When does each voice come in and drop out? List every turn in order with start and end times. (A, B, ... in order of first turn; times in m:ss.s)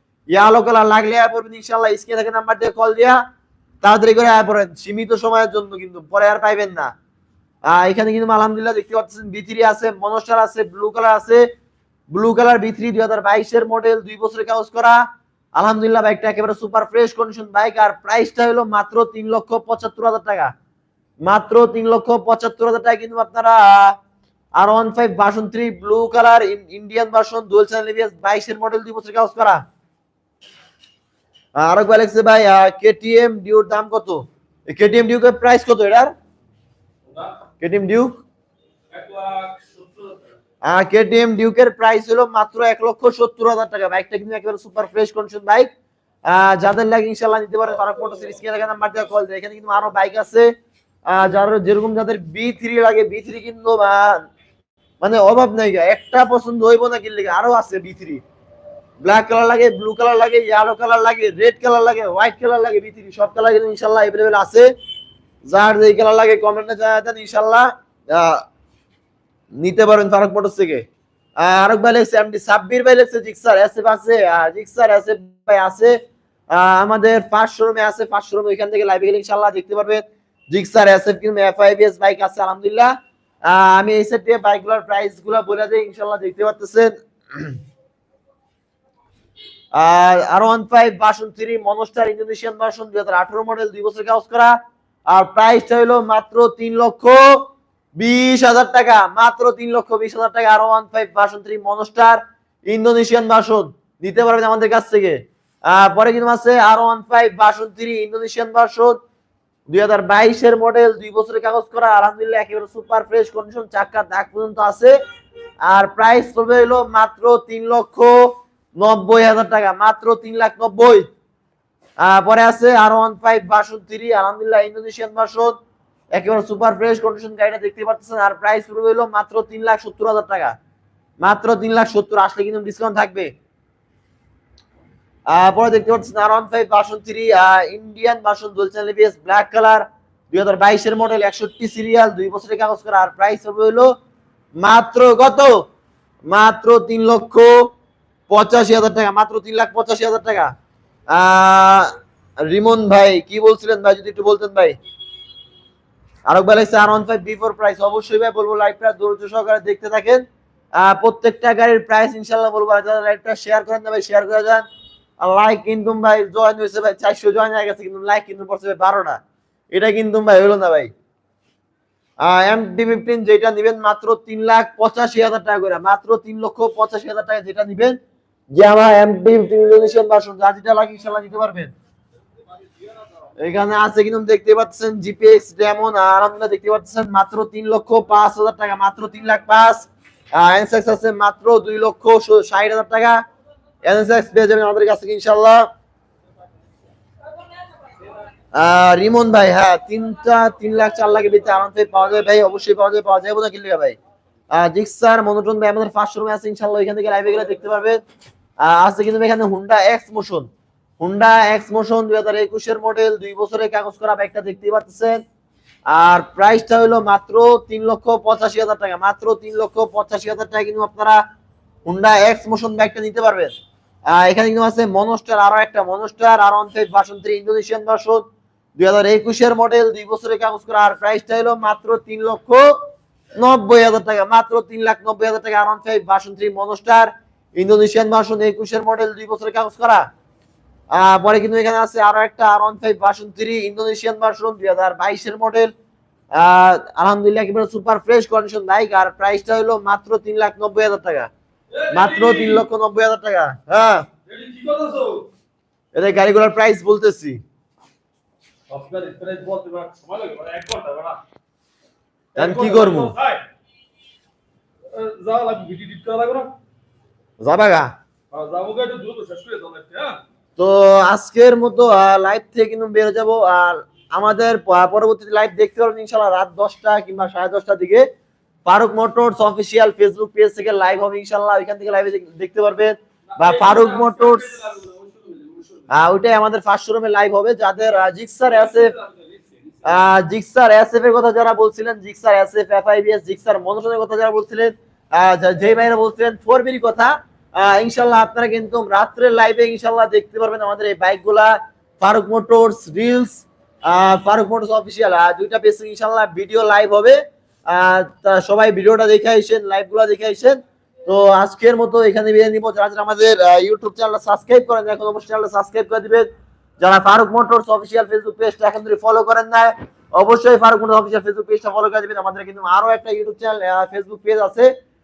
0:00.3-0:03.2 A
0:03.8-0:06.9 A
0:07.7-0:11.5 A
0:12.1-0:15.0 A
0:15.6-0:20.5 A
0:21.2-0:24.0 A
0:24.6-0:29.6 A
0:31.6-0:36.1 A
0:37.1-0:37.4 B
0:37.6-0:38.2 A
0:38.9-0:40.4 B
0:40.6-0:45.7 A
0:46.3-0:50.5 A
0:51.1-0:54.2 A
0:55.0-0:58.2 A
0:59.0-1:04.7 A
1:05.4-1:08.4 A
1:09.6-1:10.8 A
1:11.4-1:16.0 A
1:16.5-1:22.9 A
1:23.5-1:27.6 A
1:29.7-1:34.6 A
1:35.1-1:49.0 A
1:49.7-1:55.0 A
1:55.7-2:01.1 A
2:02.0-2:05.6 A
2:06.1-2:10.6 A
2:11.2-2:13.3 A
2:15.3-2:23.9 A
2:24.6-2:25.6 A
2:26.3-2:27.7 A
2:28.3-2:30.5 A
2:31.1-2:31.9 A
2:32.5-2:34.8 A
2:36.3-2:40.2 A
2:40.8-2:44.6 A
2:45.2-2:49.2 A
2:49.7-2:50.9 A
2:52.2-2:58.0 A
2:58.5-3:01.7 A
3:03.4-3:13.2 A
3:13.8-3:15.7 A
3:18.5-3:24.0 A
3:24.5-3:28.0 A
3:28.6-3:30.5 A
3:31.0-3:35.2 A
3:35.9-3:41.2 A
3:41.9-3:43.5 A
3:44.1-3:48.2 A
3:48.8-3:52.7 A
3:53.4-4:00.1 A
4:00.9-4:05.7 A
4:06.3-4:11.3 A
4:11.7-4:12.6 B
4:11.9-4:14.1 A
4:14.3-4:15.3 B
4:16.0-4:17.4 A
4:18.7-4:21.2 B
4:22.4-4:23.4 B
4:22.4-4:23.1 A
4:24.9-4:26.5 B
4:27.4-4:27.9 A
4:28.3-4:30.2 B
4:30.6-4:38.1 A
4:38.7-4:44.6 A
4:43.3-4:46.0 B
4:45.9-4:48.9 A
4:48.4-4:50.1 B
4:49.8-5:07.2 A
5:07.7-5:16.3 A
5:16.8-5:24.7 A